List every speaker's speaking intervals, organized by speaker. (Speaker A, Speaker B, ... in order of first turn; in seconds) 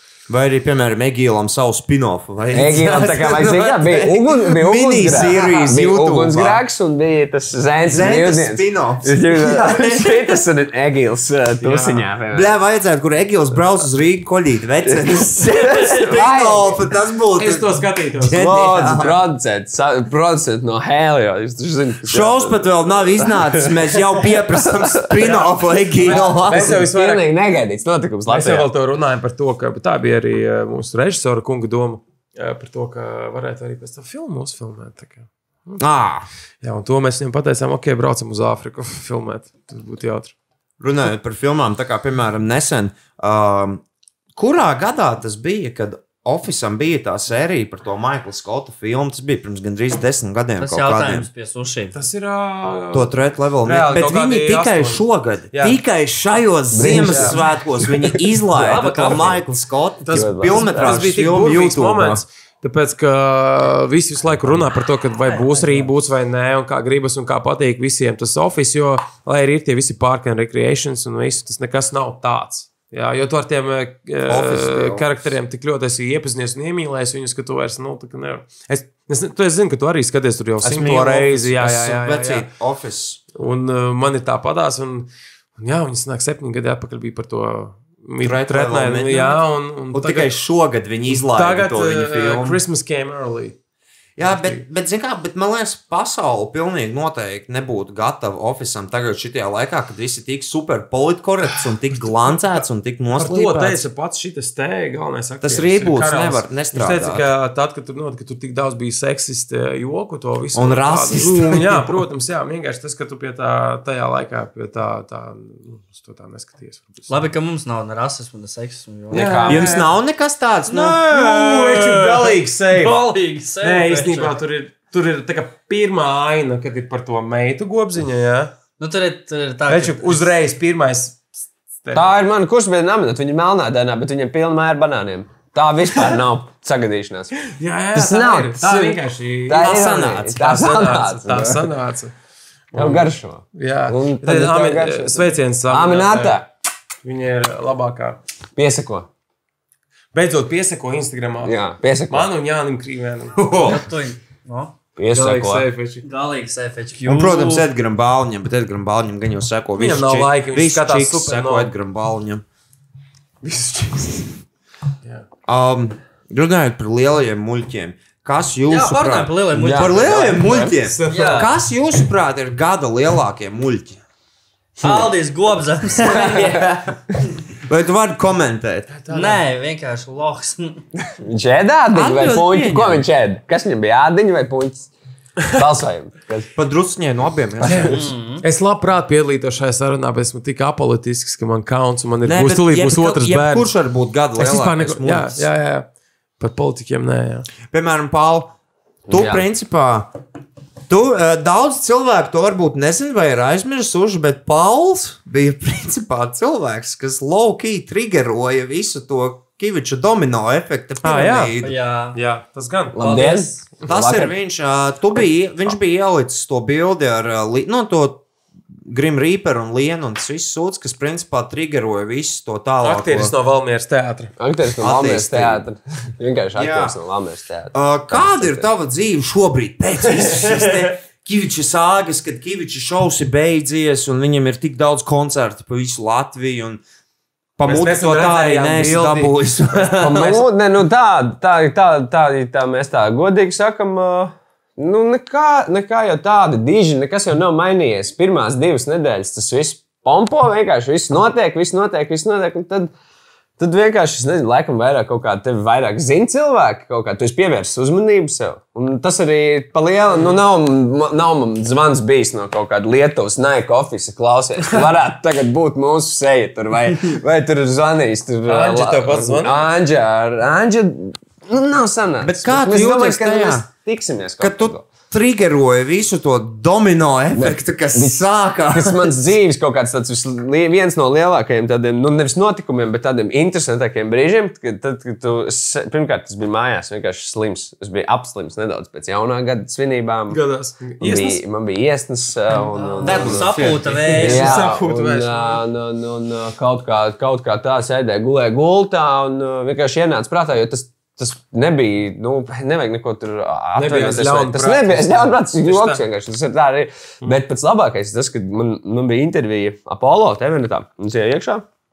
Speaker A: 0.3-6.6, 7.9-10.4, 12.3-19.2, 22.1-26.8, 35.8-36.3, 40.8-43.8, 44.4-51.3, 52.9-62.2, 74.3-75.1, 80.6-83.2, 88.2-92.6, 94.2-103.8, 105.4-107.3, 110.5-111.9, 119.5-121.4, 139.5-140.5, 153.4-153.8, 157.1-162.4, 165.5-174.0, 176.1-177.0, 177.7-178.9, 181.9-183.1, 186.6-188.1, 192.2-195.5, 197.7-198.5, 199.1-200.1, 200.9-211.8, 213.9-218.2, 218.9-223.3, 224.8-225.6, 226.6-226.9, 227.7-236.8, 237.6-240.4, 272.2-273.7, 274.4-279.2
Speaker B: 2.5-12.5, 14.8-16.8, 18.4-25.3, 26.1-28.7, 56.7-59.4, 60.1-61.0, 119.1-119.7, 131.9-137.4, 137.9-141.7, 142.8-146.5, 148.6-149.1, 151.4-152.3, 155.0-155.7, 169.5-170.8, 181.2-184.9, 185.5-186.5, 199.1-199.5, 212.9-214.3, 224.4-228.7, 240.0-252.9, 253.6-274.9, 277.4-290.4, 291.0-311.6
Speaker C: 11.6-12.1, 17.4-19.1, 25.2-27.3, 28.3-35.8, 36.6-40.3, 51.9-55.8, 56.9-57.4, 60.0-82.5, 83.3-90.3, 91.1-93.6, 94.2-94.6, 103.2-117.3, 119.1-119.9, 120.7-128.5, 129.7-131.3, 131.8-132.2, 137.4-139.8, 140.4-142.1, 142.7-146.4, 147.0-148.2, 150.1-153.4, 155.1-156.1, 159.8-161.7, 163.4-164.3, 170.9-171.5, 178.9-179.4, 187.6-193.7, 194.4-195.9, 196.4-197.5, 211.0-211.6, 212.1-213.5, 222.8-224.3, 230.2-230.9, 237.6-239.3, 260.1-260.4, 268.4-269.6, 290.3-291.4, 292.7-295.6, 303.8-306.0
Speaker D: 50.6-52.0, 58.6-59.4, 117.1-119.5, 121.1-121.6, 122.8-124.3, 128.8-130.3, 153.6-154.7, 156.0-157.7, 168.7-170.4, 171.1-171.5, 174.8-176.6, 179.1-180.8, 187.9-188.4, 211.6-212.2, 293.0-294.6